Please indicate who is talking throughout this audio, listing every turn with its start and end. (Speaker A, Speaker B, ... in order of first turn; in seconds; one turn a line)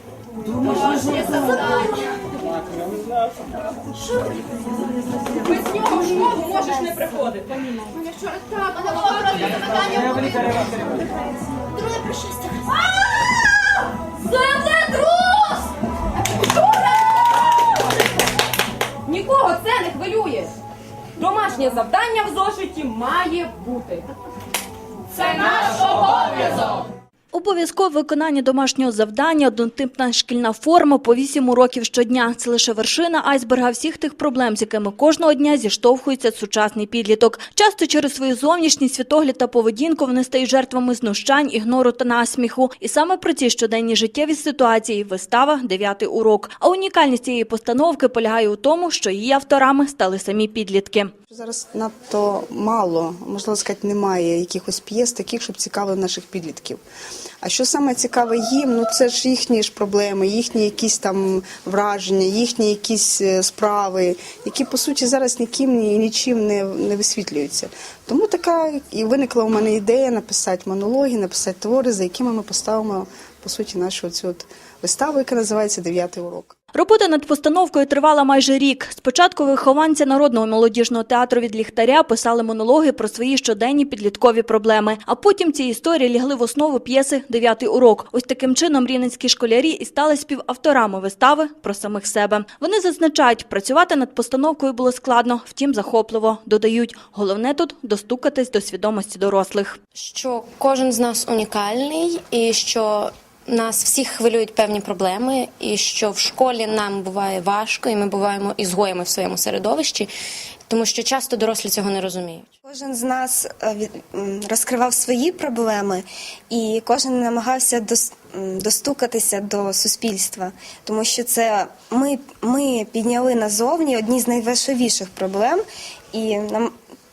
Speaker A: 0.5-2.2
Speaker A: 3.9-4.5
Speaker A: 5.3-10.8
Speaker A: 11.7-13.0
Speaker A: 14.2-15.7
Speaker A: 16.4-17.5
Speaker A: 19.1-20.5
Speaker A: 21.2-24.1
Speaker A: 25.1-26.8
Speaker B: 27.3-51.1
Speaker C: 51.3-56.8
Speaker C: 57.4-76.5
Speaker B: 76.7-99.8
Speaker D: 100.0-110.1
Speaker D: 110.7-112.5
Speaker E: 112.7-125.6
Speaker E: 126.1-126.7